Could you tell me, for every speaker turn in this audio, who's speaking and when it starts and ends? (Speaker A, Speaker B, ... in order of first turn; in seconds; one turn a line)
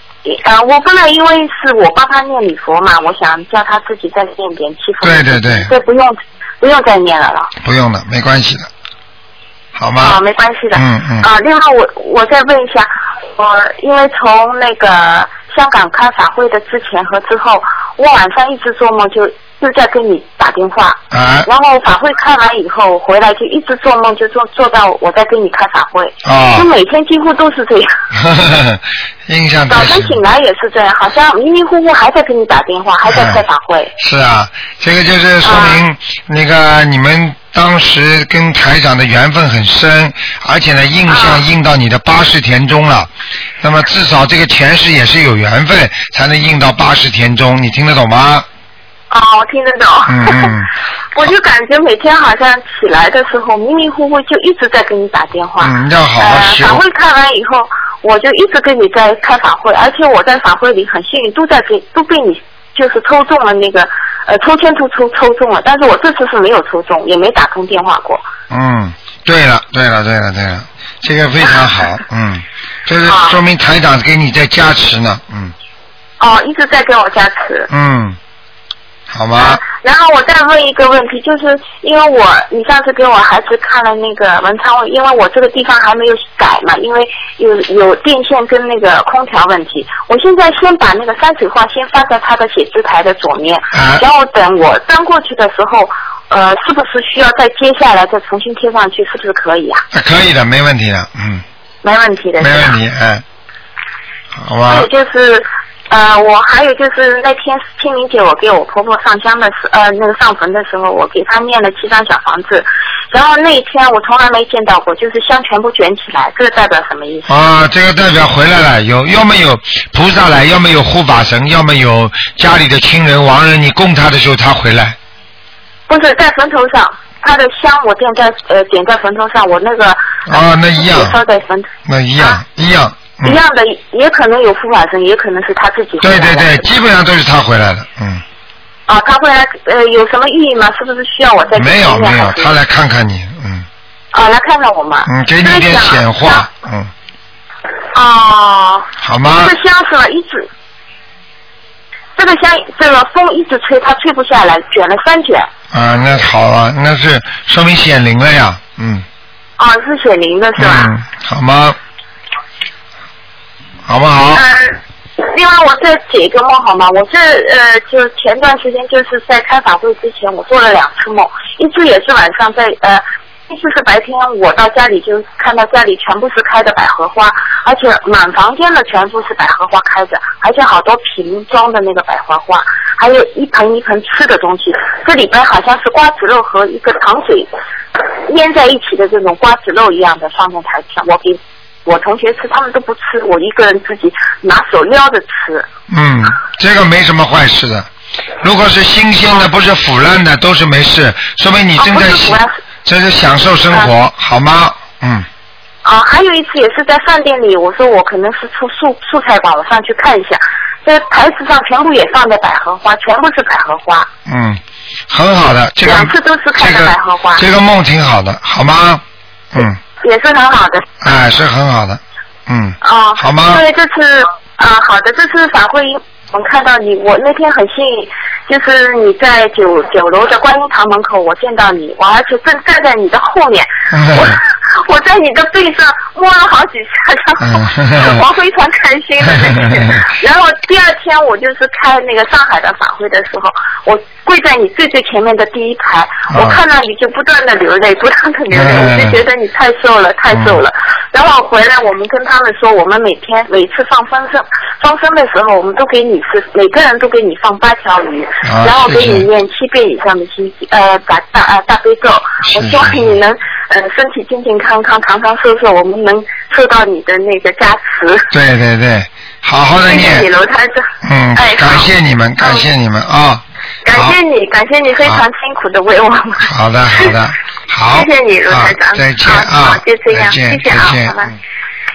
Speaker A: 0.2-7.5
Speaker B: 5.0-5.7
Speaker B: 7.6-8.7
Speaker B: 9.7-10.2
Speaker A: 10.0-27.9
Speaker B: 10.7-11.2
Speaker B: 21.1-21.5
Speaker B: 26.2-26.7
Speaker B: 28.1-30.2
Speaker A: 29.7-33.9
Speaker B: 33.1-33.4
Speaker B: 34.0-43.1
Speaker A: 35.4-35.8
Speaker A: 41.1-41.4
Speaker B: 43.6-48.5
Speaker A: 49.1-50.6
Speaker B: 50.1-50.7
Speaker A: 51.1-68.3
Speaker B: 55.6-56.8
Speaker B: 68.5-75.5
Speaker A: 71.4-71.9
Speaker A: 73.0-73.4
Speaker A: 76.2-77.7
Speaker B: 77.7-78.2
Speaker B: 79.1-79.6
Speaker A: 79.3-99.8
Speaker B: 93.7-94.0
Speaker B: 99.9-101.4
Speaker A: 101.8-102.8
Speaker B: 102.4-103.2
Speaker B: 104.3-104.9
Speaker A: 104.7-117.3
Speaker B: 117.3-125.0
Speaker A: 125.9-132.4
Speaker B: 130.3-131.1
Speaker B: 131.8-133.4
Speaker A: 133.2-136.7
Speaker B: 136.0-138.2
Speaker A: 138.9-142.6
Speaker B: 141.6-143.7
Speaker A: 144.1-146.5
Speaker B: 145.1-146.9
Speaker A: 147.9-150.5
Speaker B: 149.0-149.5
Speaker A: 152.2-155.5
Speaker B: 155.7-159.0
Speaker A: 159.6-160.9
Speaker B: 160.6-161.8
Speaker B: 163.9-164.4
Speaker A: 164.3-187.5
Speaker A: 188.2-195.7
Speaker B: 195.9-197.9
Speaker B: 198.4-205.3
Speaker A: 201.8-202.5
Speaker A: 205.8-214.1
Speaker B: 214.2-219.0
Speaker A: 215.8-217.4
Speaker A: 220.0-220.8
Speaker B: 221.0-223.6
Speaker A: 222.8-268.3
Speaker B: 233.9-234.4
Speaker B: 237.4-238.2
Speaker B: 246.3-246.6
Speaker B: 248.5-249.2
Speaker B: 250.3-250.6
Speaker B: 258.4-259.2
Speaker B: 262.5-263.1
Speaker B: 268.3-270.3
Speaker A: 269.7-272.7
Speaker B: 271.0-274.1
Speaker A: 273.9-277.2
Speaker B: 276.4-281.3
Speaker A: 277.8-281.3